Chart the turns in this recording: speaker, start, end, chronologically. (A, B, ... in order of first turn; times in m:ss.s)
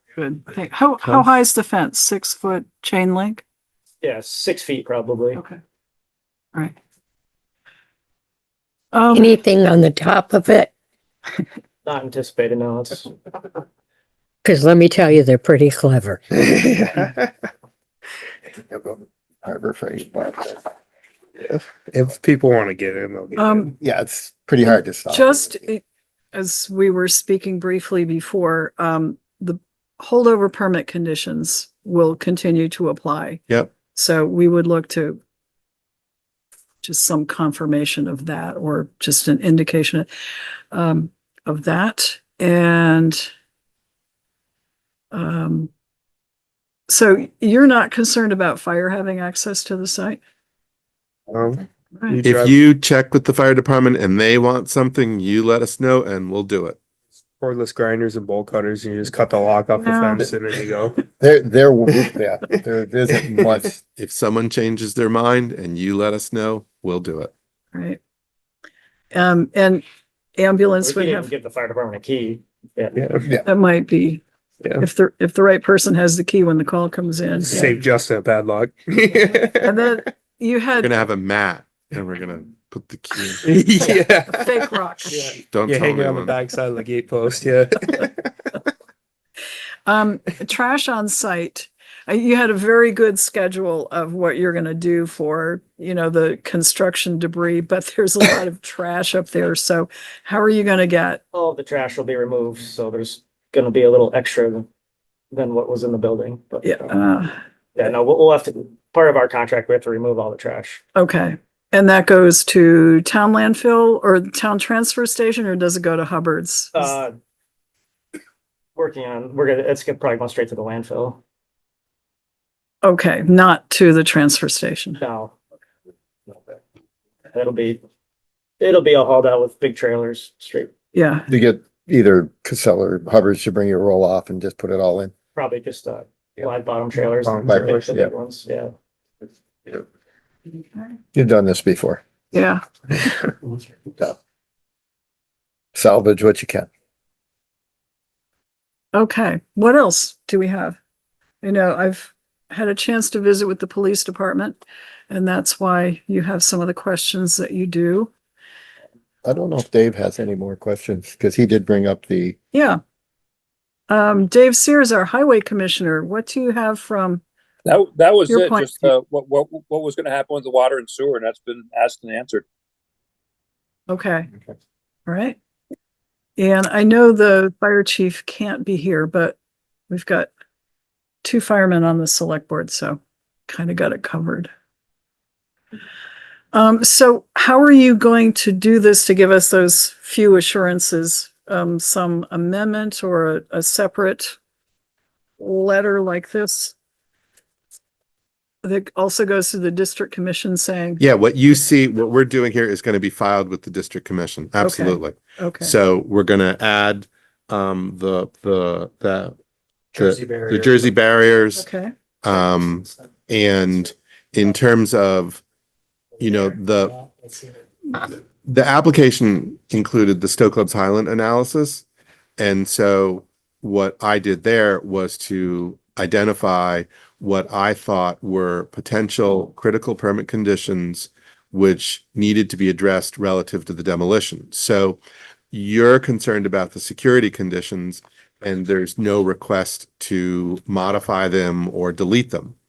0:00.2-0:03.4 A
0:04.0-0:05.4 B
0:08.9-0:09.4 A
0:09.1-0:10.7 C
0:11.8-0:13.1 B
0:14.4-0:16.2 C
0:16.3-0:17.1 D
0:18.6-0:20.6 E
0:21.4-0:23.6 D
0:23.4-0:23.7 A
0:23.8-0:25.6 E
0:25.1-0:35.2 A
0:36.8-0:40.1 A
0:40.7-0:43.3 A
0:45.1-0:45.7 A
0:46.9-0:50.2 A
0:51.3-0:52.6 D
0:52.2-0:56.8 F
0:57.4-1:01.0 D
0:59.8-1:00.2 A
1:01.2-1:03.8 E
1:03.9-1:07.3 F
1:07.7-1:08.0 A
1:09.1-1:09.8 A
1:10.4-1:11.3 A
1:10.8-1:13.1 B
1:13.4-1:14.2 A
1:14.8-1:17.8 A
1:17.5-1:19.8 D
1:19.3-1:20.9 A
1:20.8-1:23.6 F
1:23.4-1:28.3 D
1:24.3-1:25.3 A
1:25.4-1:26.4 F
1:29.8-1:41.2 A
1:41.3-1:44.7 B
1:45.3-1:46.9 B
1:46.6-1:47.3 A
1:47.8-1:50.8 B
1:50.9-1:57.0 A
1:56.7-1:57.1 B
1:58.8-2:01.2 B
2:02.8-2:05.0 A
2:05.0-2:05.3 B
2:07.3-2:07.8 B
2:08.6-2:10.7 B
2:10.9-2:11.3 A
2:11.3-2:15.1 E
2:15.3-2:18.7 B
2:17.2-2:17.8 D
2:17.5-2:18.1 E
2:21.1-2:22.0 E
2:22.3-2:22.6 A
2:25.7-2:26.7 E
2:28.9-2:30.8 A
2:31.4-2:38.1 A
2:39.2-2:42.4 E
2:42.5-2:42.8 A
2:43.9-2:47.2 A
2:47.7-2:52.4 G
2:48.3-2:48.9 A
2:53.9-2:54.3 A
2:55.1-2:55.4 A
2:56.4-2:59.4 A
2:59.9-3:00.3 A
3:01.2-3:04.5 A
3:06.5-3:14.4 A
3:15.4-3:16.7 A
3:18.6-3:21.0 A
3:21.0-3:29.3 F
3:24.6-3:25.7 A
3:29.9-3:31.6 F
3:31.5-3:31.9 A
3:32.2-3:35.4 F
3:36.2-3:37.0 F
3:37.9-3:41.8 F
3:42.4-3:55.0 F
3:55.5-4:02.6 F